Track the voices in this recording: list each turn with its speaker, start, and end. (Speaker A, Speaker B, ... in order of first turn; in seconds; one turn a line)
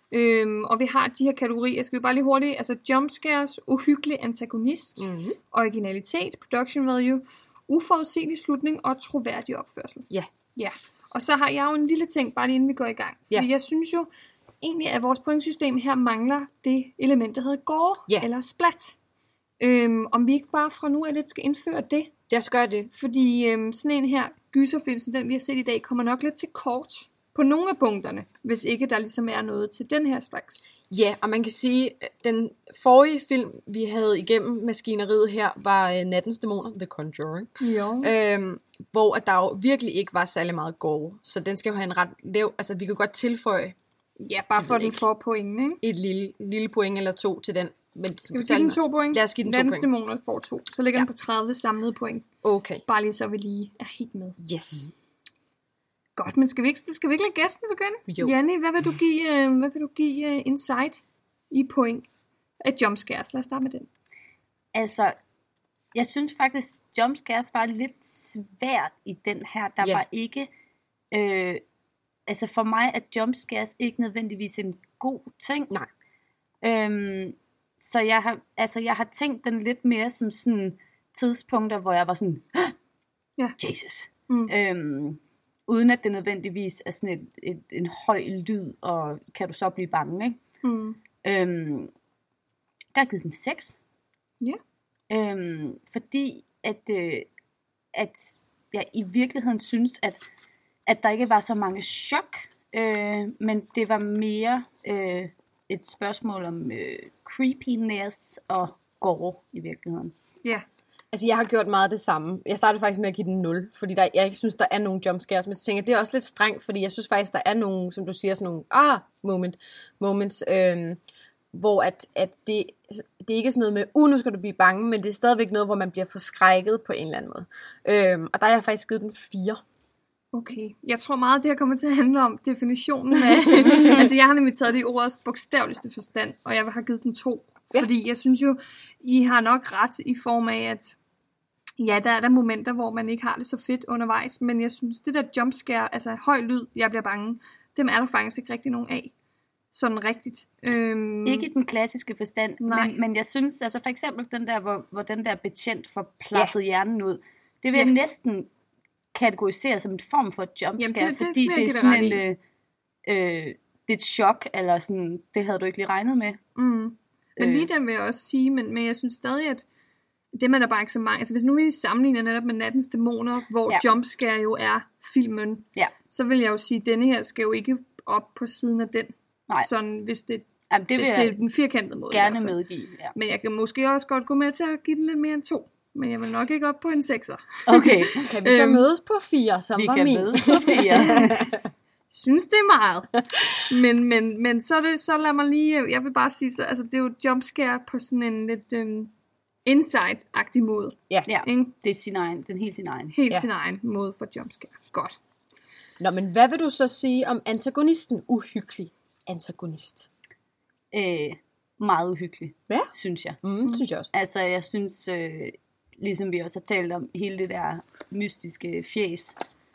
Speaker A: 0.1-14.1
Speaker B: 5.0-5.4
Speaker A: 14.6-19.0
Speaker A: 19.6-22.1
Speaker B: 22.3-22.9
Speaker A: 22.9-30.7
Speaker B: 30.9-43.8
Speaker A: 37.6-38.1
Speaker A: 44.2-45.8
Speaker B: 44.6-45.0
Speaker B: 45.8-49.9
Speaker A: 48.3-52.3
Speaker B: 52.4-52.8
Speaker A: 52.9-54.4
Speaker B: 54.4-54.9
Speaker A: 56.2-62.1
Speaker B: 58.1-58.3
Speaker A: 62.6-63.9
Speaker C: 64.7-65.2
Speaker C: 65.9-70.5
Speaker C: 71.1-71.6
Speaker C: 72.3-75.7
Speaker C: 76.6-82.8
Speaker C: 83.6-90.4
Speaker A: 90.6-91.0
Speaker C: 91.2-91.9
Speaker C: 92.9-93.8
Speaker C: 95.1-97.3
Speaker C: 97.9-100.2
Speaker C: 100.9-110.1
Speaker B: 111.1-121.0
Speaker B: 121.5-129.6
Speaker A: 130.3-141.0
Speaker A: 141.8-149.1
Speaker A: 149.7-151.5
Speaker C: 151.3-158.5
Speaker A: 152.6-152.9
Speaker C: 159.1-162.4
Speaker A: 160.8-162.2
Speaker C: 163.1-166.4
Speaker A: 166.6-169.7
Speaker B: 167.4-167.7
Speaker A: 170.3-182.6
Speaker C: 180.7-181.4
Speaker C: 182.1-183.1
Speaker A: 183.2-187.9
Speaker C: 187.7-188.8
Speaker B: 188.2-191.6
Speaker C: 189.8-191.4
Speaker A: 190.9-191.5
Speaker A: 192.1-199.1
Speaker A: 199.7-201.7
Speaker C: 201.3-203.2
Speaker A: 203.1-205.2
Speaker B: 206.0-210.1
Speaker C: 210.9-213.4
Speaker B: 213.4-214.1
Speaker C: 214.1-219.4